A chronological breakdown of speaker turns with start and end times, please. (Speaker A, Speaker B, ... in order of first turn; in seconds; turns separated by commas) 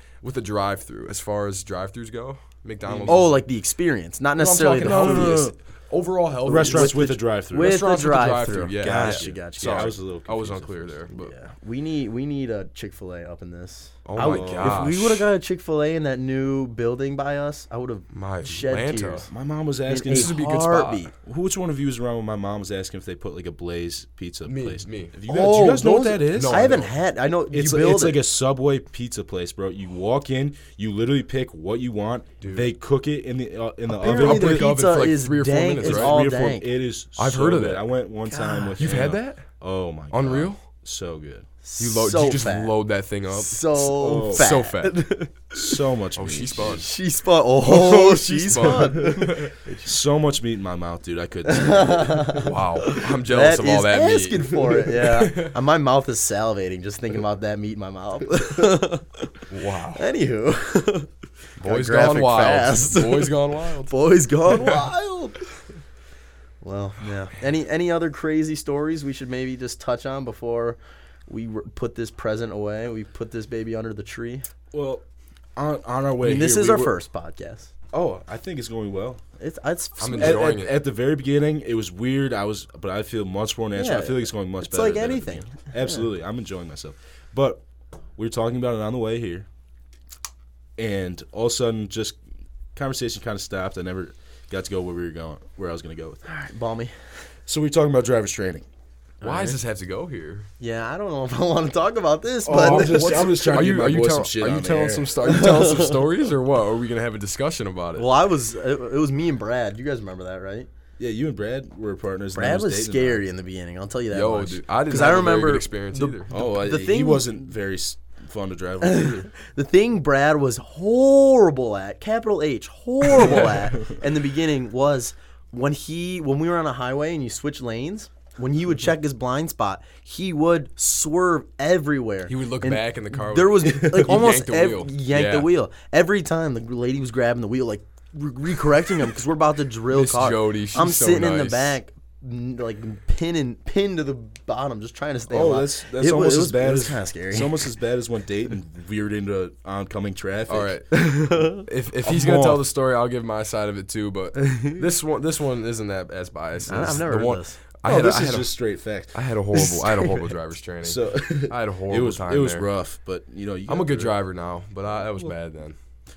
Speaker A: 0.2-3.3, Speaker B: 2.9-3.3, Speaker C: 3.1-5.5, Speaker A: 4.4-11.3, Speaker B: 4.7-5.5, Speaker B: 6.5-7.8, Speaker C: 6.5-10.0, Speaker B: 8.8-11.0, Speaker C: 11.1-19.3, Speaker A: 14.1-15.3, Speaker B: 14.2-15.0, Speaker A: 18.1-19.3, Speaker B: 19.3-20.4, Speaker C: 19.9-21.1, Speaker A: 20.1-21.1, Speaker B: 21.2-26.8, Speaker A: 24.5-25.1, Speaker C: 25.3-28.2, Speaker A: 26.3-26.9, Speaker B: 27.5-34.7, Speaker A: 32.4-32.7, Speaker C: 33.9-36.7, Speaker A: 34.0-36.2, Speaker B: 35.8-41.5, Speaker A: 37.2-37.9, Speaker C: 38.3-38.9, Speaker A: 38.8-39.5, Speaker A: 40.1-40.6, Speaker C: 41.6-42.7, Speaker A: 41.8-45.0, Speaker C: 43.3-45.8, Speaker B: 44.0-44.5, Speaker B: 45.5-46.9, Speaker A: 46.2-46.9, Speaker C: 46.6-49.9, Speaker A: 47.6-49.5, Speaker B: 48.5-49.2, Speaker B: 49.8-52.4, Speaker C: 51.5-61.1, Speaker A: 52.3-55.5, Speaker A: 59.5-60.0, Speaker A: 61.6-63.9, Speaker C: 61.6-65.4, Speaker A: 64.5-64.8, Speaker C: 66.6-74.5, Speaker B: 74.7-75.0, Speaker B: 75.6-77.0, Speaker C: 76.2-77.7, Speaker B: 77.9-79.2, Speaker C: 79.4-80.5, Speaker A: 80.0-80.8, Speaker B: 80.1-87.6, Speaker C: 83.8-86.0, Speaker B: 88.2-89.5, Speaker B: 90.8-92.2, Speaker B: 92.8-96.2, Speaker C: 96.3-96.9, Speaker B: 97.5-98.7, Speaker C: 99.2-99.6, Speaker A: 99.2-100.5, Speaker C: 100.6-103.4, Speaker B: 102.5-105.2, Speaker A: 102.5-108.1, Speaker C: 105.2-106.0, Speaker C: 108.0-110.7, Speaker B: 111.0-113.2, Speaker C: 112.3-117.3, Speaker A: 114.1-116.3, Speaker B: 116.3-119.3, Speaker C: 118.8-147.7, Speaker A: 123.1-123.8, Speaker A: 132.3-135.5, Speaker A: 139.9-141.8, Speaker B: 145.3-150.7, Speaker A: 150.5-158.6, Speaker C: 150.9-151.7, Speaker B: 152.0-152.7, Speaker C: 154.4-154.8, Speaker C: 156.7-157.6, Speaker B: 157.8-159.3, Speaker A: 159.1-162.7, Speaker B: 160.8-164.1, Speaker A: 163.7-165.8, Speaker B: 165.1-165.3